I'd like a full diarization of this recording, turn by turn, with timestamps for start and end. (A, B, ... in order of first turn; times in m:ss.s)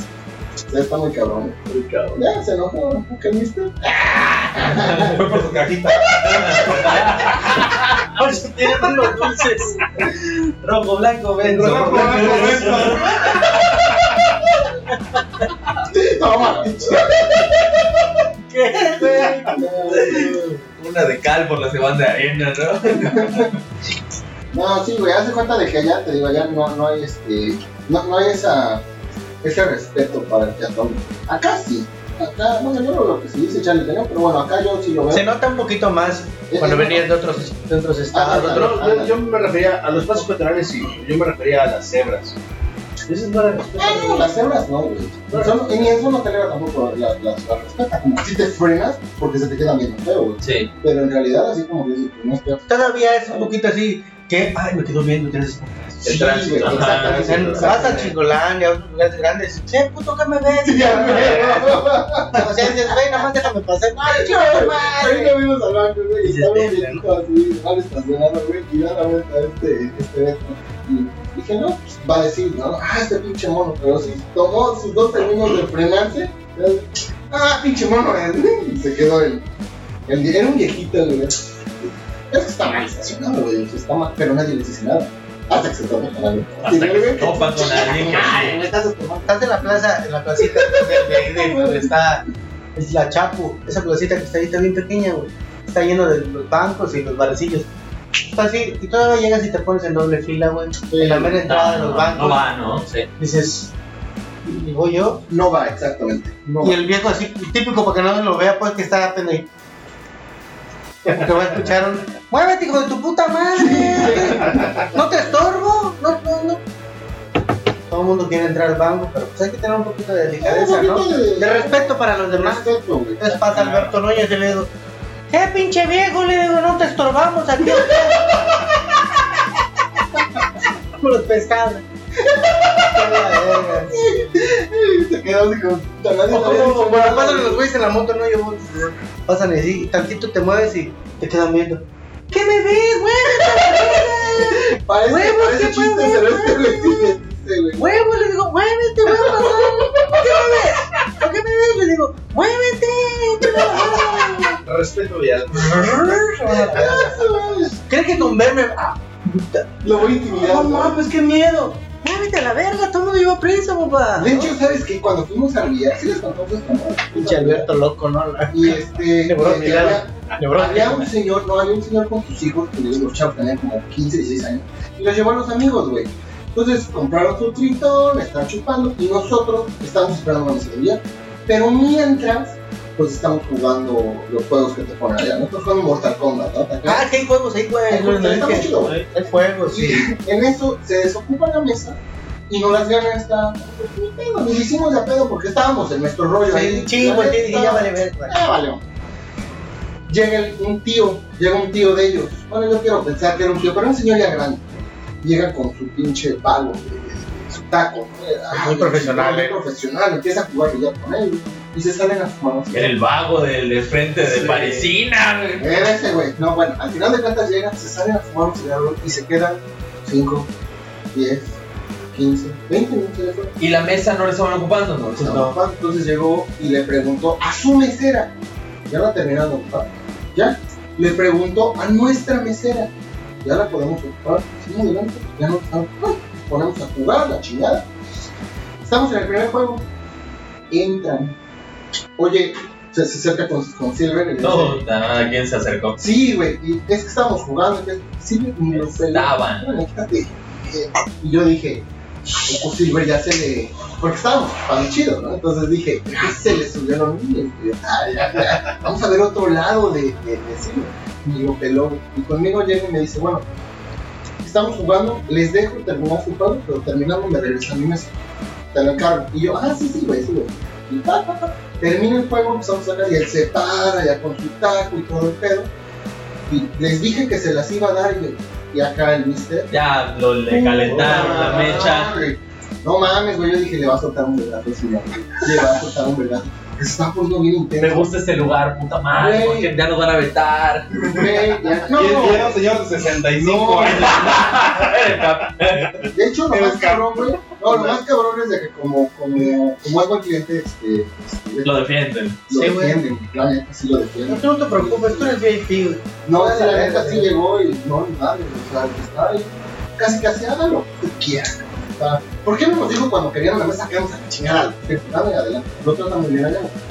0:00.7-0:05.2 A
0:01.7-0:02.2 B
0:04.0-0:05.5 C
0:04.8-0:07.2 D
0:06.2-0:08.0 C
0:08.1-0:09.8 E
0:10.6-0:13.4 C
0:11.2-0:12.9 E
0:11.6-0:13.5 D
0:11.9-0:12.7 A
0:15.9-0:17.6 A
0:18.5-0:20.5 E
0:19.4-0:20.4 A
0:19.9-0:23.5 C
0:23.0-0:23.5 A
0:24.5-0:28.8 A
0:29.4-0:35.3 A
0:35.1-0:38.8 E
0:36.5-0:37.1 A
0:38.1-0:39.2 A
0:38.4-0:42.4 B
0:43.1-0:44.3 B
0:43.8-0:52.7 A
0:45.4-0:45.7 B
0:50.4-0:50.7 C
0:52.7-0:56.0 E
0:56.0-0:58.1 B
0:56.0-0:58.1 A
0:56.1-0:58.0 C
0:57.1-1:05.4 E
1:00.6-1:03.3 A
1:04.1-1:19.4 A
1:06.3-1:07.0 E
1:20.1-1:21.4 A
1:22.3-1:29.8 A
1:26.6-1:28.6 C
1:29.3-1:32.2 E
1:30.6-1:31.9 A
1:32.8-1:37.7 E
1:38.3-1:42.4 E
1:40.9-1:41.4 A
1:41.4-1:43.1 C
1:43.2-1:43.7 E
1:44.4-1:45.2 E
1:45.3-1:46.8 A
1:46.6-1:49.5 E
1:51.0-1:56.6 E
1:53.6-1:54.9 A
1:57.9-2:04.7 E
2:00.4-2:03.4 A
2:03.5-2:04.0 D
2:05.3-2:08.3 E
2:11.0-2:11.8 E
2:12.2-2:17.6 A
2:12.9-2:14.0 E
2:16.3-2:27.1 E
2:23.6-2:28.0 A
2:27.8-2:34.6 E
2:29.4-2:30.4 A
2:34.6-2:36.3 B
2:35.5-2:37.2 E
2:36.7-2:37.8 A
2:37.8-2:44.6 E
2:39.8-2:41.0 A
2:44.2-2:47.7 A
2:47.1-2:51.1 E
2:48.5-3:07.1 A
3:06.9-3:10.1 E
3:07.9-3:09.1 A
3:09.7-3:18.8 A
3:16.4-3:18.4 E
3:20.1-3:32.9 A
3:28.5-3:29.6 E
3:32.7-3:35.8 C
3:34.4-3:34.7 B
3:35.6-3:40.5 A
3:41.1-3:41.6 A
3:42.1-3:43.6 A
3:43.6-3:45.4 C
3:45.2-3:48.3 A
3:45.2-3:45.6 E
3:48.9-3:52.9 A
3:53.4-3:57.9 A
3:58.8-3:59.9 A
4:00.7-4:01.4 A
4:02.2-4:04.8 A
4:04.4-4:06.0 C
4:06.0-4:23.4 A
4:08.7-4:09.8 C
4:24.4-4:28.1 A
4:28.7-4:35.7 A
4:36.5-4:39.7 A
4:39.7-4:42.2 C
4:40.5-4:48.1 A
4:40.9-4:41.7 B
4:47.8-4:51.4 C
4:49.2-4:49.7 A
4:51.0-4:52.6 A
4:51.9-4:54.7 D
4:53.4-4:54.4 A
4:54.0-4:56.1 C
4:56.1-5:01.8 A
4:56.5-4:58.0 E
5:01.6-5:02.4 C
5:02.5-5:05.4 A
5:02.5-5:03.0 E
5:04.3-5:07.3 E
5:06.2-5:16.8 A